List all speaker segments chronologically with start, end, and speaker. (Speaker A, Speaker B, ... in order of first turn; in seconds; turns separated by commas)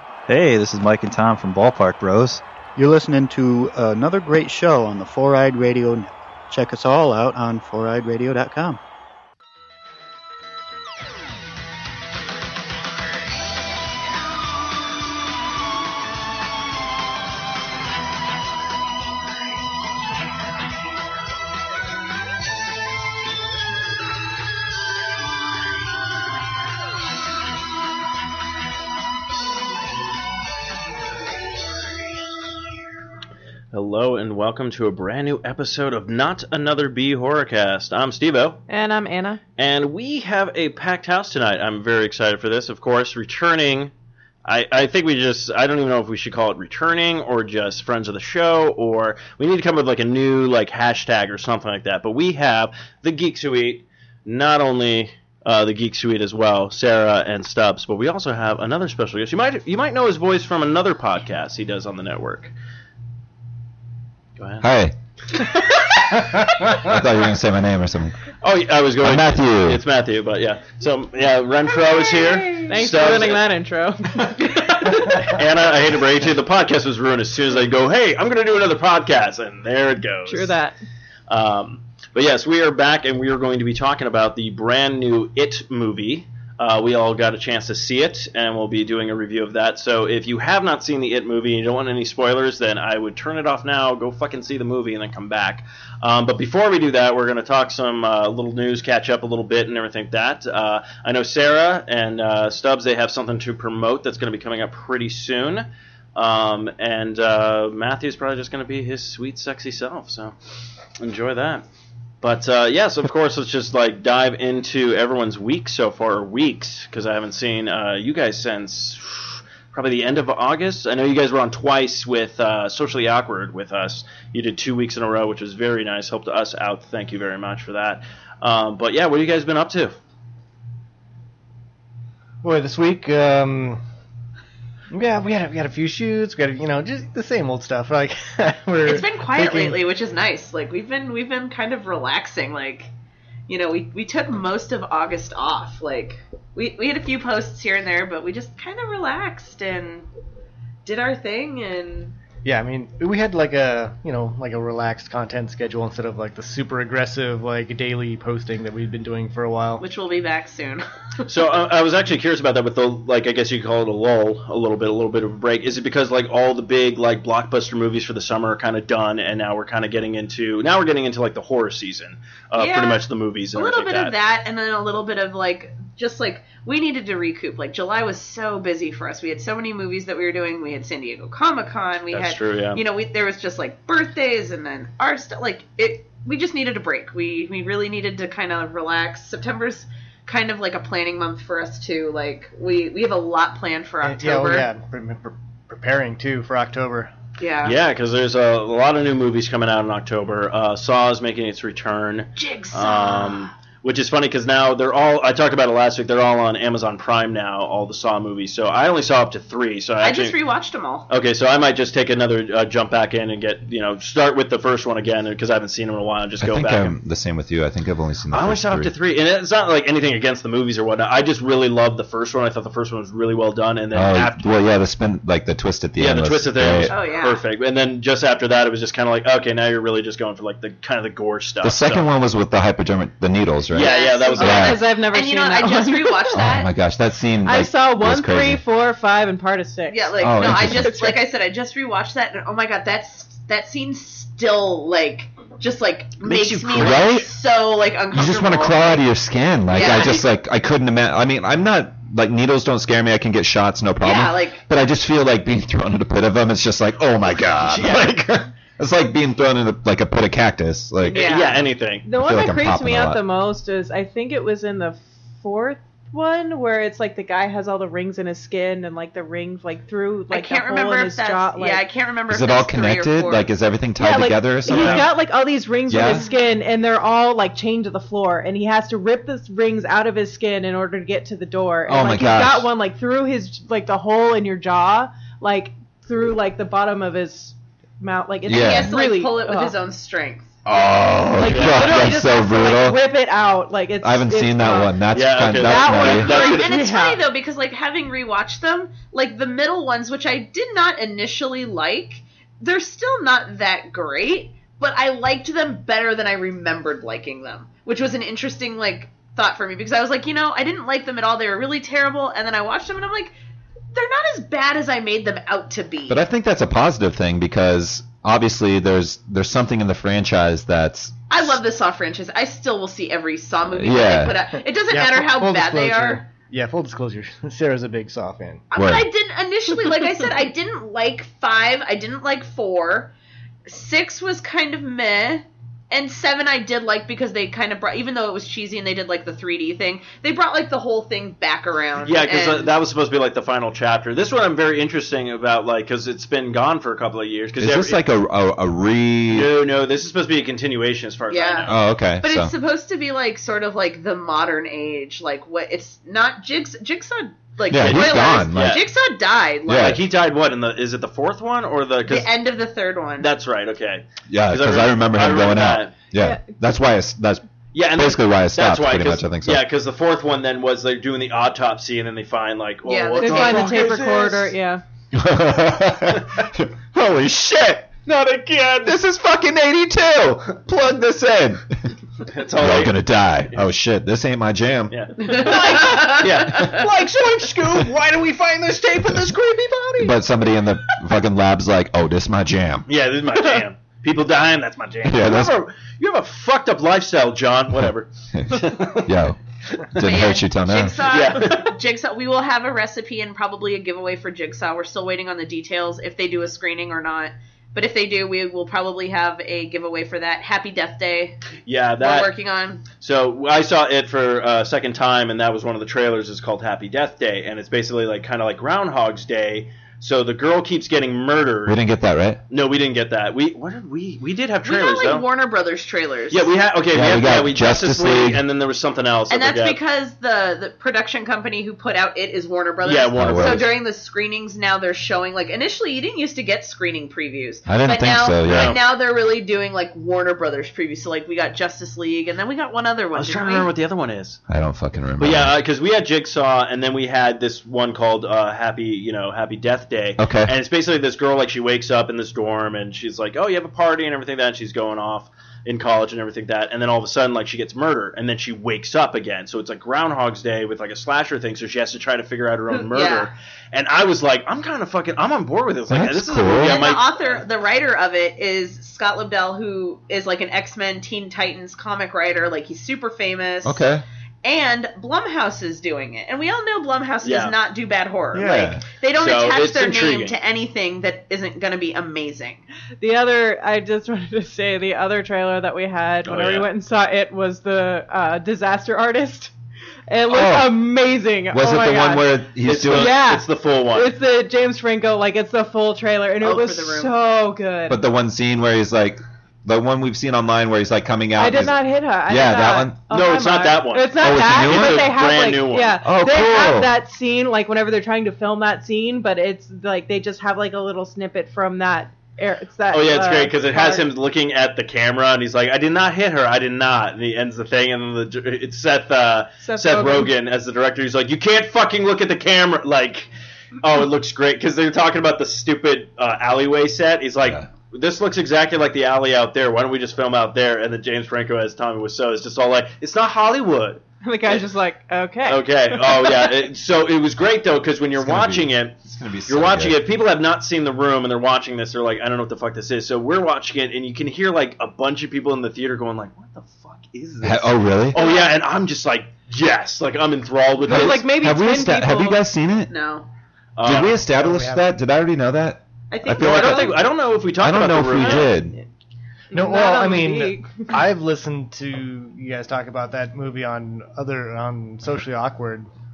Speaker A: 0.3-2.4, Speaker B: 2.8-8.8, Speaker C: 33.7-38.6, Speaker D: 38.7-39.4, Speaker C: 39.6-43.9, Speaker C: 44.4-62.5, Speaker C: 64.4-64.7, Speaker E: 64.6-64.9, Speaker E: 66.6-68.2, Speaker C: 68.4-73.4, Speaker E: 69.0-69.8, Speaker F: 71.9-72.6, Speaker D: 72.6-75.1, Speaker C: 74.4-80.6, Speaker D: 80.3-80.7, Speaker C: 81.3-110.3, Speaker C: 111.0-111.6, Speaker C: 112.2-130.0, Speaker G: 132.4-133.8, Speaker G: 134.9-139.8, Speaker F: 138.8-142.9, Speaker F: 143.5-150.1, Speaker F: 150.8-152.2, Speaker G: 152.4-159.8, Speaker F: 159.8-161.2, Speaker C: 161.3-174.2, Speaker F: 172.6-194.7, Speaker C: 182.1-182.8, Speaker G: 194.0-197.1, Speaker F: 197.4-197.8, Speaker C: 197.6-210.3, Speaker F: 202.4-203.5, Speaker F: 210.0-211.1, Speaker C: 211.1-217.0, Speaker E: 216.4-218.9, Speaker C: 218.3-224.6, Speaker E: 223.9-226.9, Speaker C: 226.0-232.1, Speaker F: 226.9-227.4, Speaker E: 231.6-234.8, Speaker C: 233.7-234.8, Speaker F: 233.8-236.7, Speaker D: 234.4-236.4, Speaker E: 236.3-238.6, Speaker D: 237.4-241.2, Speaker F: 239.9-249.0, Speaker E: 240.2-241.0, Speaker C: 246.2-247.2, Speaker E: 246.7-247.3, Speaker E: 248.1-261.3, Speaker F: 249.7-250.3, Speaker C: 249.8-250.2, Speaker F: 254.0-254.6, Speaker C: 257.6-258.4, Speaker F: 261.0-261.6, Speaker C: 261.1-262.1, Speaker D: 262.0-271.8, Speaker E: 262.1-263.2, Speaker F: 270.3-273.5, Speaker E: 272.3-275.1, Speaker D: 274.0-289.7, Speaker C: 274.7-275.1, Speaker E: 275.9-276.2, Speaker E: 281.9-282.7, Speaker E: 288.4-288.9, Speaker F: 288.5-291.1, Speaker E: 290.6-293.0, Speaker D: 291.3-297.2, Speaker C: 291.4-292.0, Speaker E: 294.0-296.3, Speaker C: 295.1-296.7, Speaker F: 296.1-313.3, Speaker F: 313.9-316.2, Speaker E: 316.1-321.6, Speaker F: 321.3-326.2, Speaker E: 323.7-324.4, Speaker G: 324.9-328.6, Speaker F: 328.7-333.1, Speaker E: 328.8-329.1, Speaker F: 333.7-342.7, Speaker C: 342.0-348.0, Speaker E: 347.6-349.5, Speaker C: 349.3-351.8, Speaker F: 351.3-359.9, Speaker E: 351.7-352.5, Speaker E: 357.7-358.8, Speaker C: 357.7-358.8, Speaker E: 359.7-360.0, Speaker C: 359.7-362.3, Speaker F: 362.1-363.3, Speaker C: 363.2-365.9, Speaker E: 364.3-369.6, Speaker D: 366.1-366.4, Speaker C: 367.7-374.5, Speaker F: 372.8-373.8, Speaker D: 373.1-374.8, Speaker E: 375.1-377.9, Speaker C: 378.1-379.0, Speaker E: 378.8-381.6, Speaker C: 382.2-383.7, Speaker E: 382.6-385.4, Speaker C: 384.9-390.1, Speaker F: 385.2-386.7, Speaker E: 390.0-392.9, Speaker C: 392.9-399.1, Speaker E: 395.0-395.6, Speaker E: 398.3-399.4, Speaker E: 399.9-401.0, Speaker F: 400.0-411.4, Speaker C: 401.1-401.7, Speaker C: 411.6-412.3, Speaker F: 412.0-412.8, Speaker C: 412.9-421.8, Speaker E: 421.7-422.4, Speaker C: 422.5-425.3, Speaker F: 424.6-426.5, Speaker C: 426.3-429.8, Speaker E: 426.9-428.4, Speaker F: 429.3-443.7, Speaker C: 432.8-433.7, Speaker E: 433.1-433.7, Speaker E: 437.7-438.8, Speaker C: 438.4-438.8, Speaker C: 443.1-444.4, Speaker E: 444.5-445.6, Speaker C: 445.2-467.4, Speaker E: 450.2-450.5, Speaker F: 462.7-463.3, Speaker E: 465.9-466.8, Speaker F: 466.6-473.8, Speaker E: 473.6-474.0, Speaker F: 474.4-482.6, Speaker C: 477.2-477.5, Speaker E: 478.3-478.8, Speaker C: 479.1-480.4, Speaker D: 483.0-489.5, Speaker C: 486.2-486.6, Speaker D: 490.1-492.3, Speaker E: 490.3-490.8, Speaker E: 491.5-493.2, Speaker C: 492.6-494.1, Speaker D: 492.9-498.0, Speaker F: 496.4-497.1, Speaker E: 497.9-503.0, Speaker D: 501.4-514.1, Speaker C: 503.1-505.9, Speaker E: 504.2-505.1, Speaker E: 506.0-506.9, Speaker C: 512.9-523.3, Speaker D: 519.6-520.3, Speaker C: 523.8-534.6, Speaker D: 534.2-536.6, Speaker C: 535.4-538.9, Speaker E: 538.1-540.0, Speaker C: 539.5-551.2, Speaker E: 547.4-548.2, Speaker F: 548.1-548.5, Speaker D: 550.8-552.4, Speaker E: 550.9-552.9, Speaker F: 552.9-553.3, Speaker C: 553.8-554.2, Speaker E: 553.8-558.7, Speaker G: 554.4-554.8, Speaker F: 556.1-557.1, Speaker C: 556.4-558.5, Speaker D: 558.2-558.6, Speaker D: 559.5-561.0, Speaker G: 559.5-565.9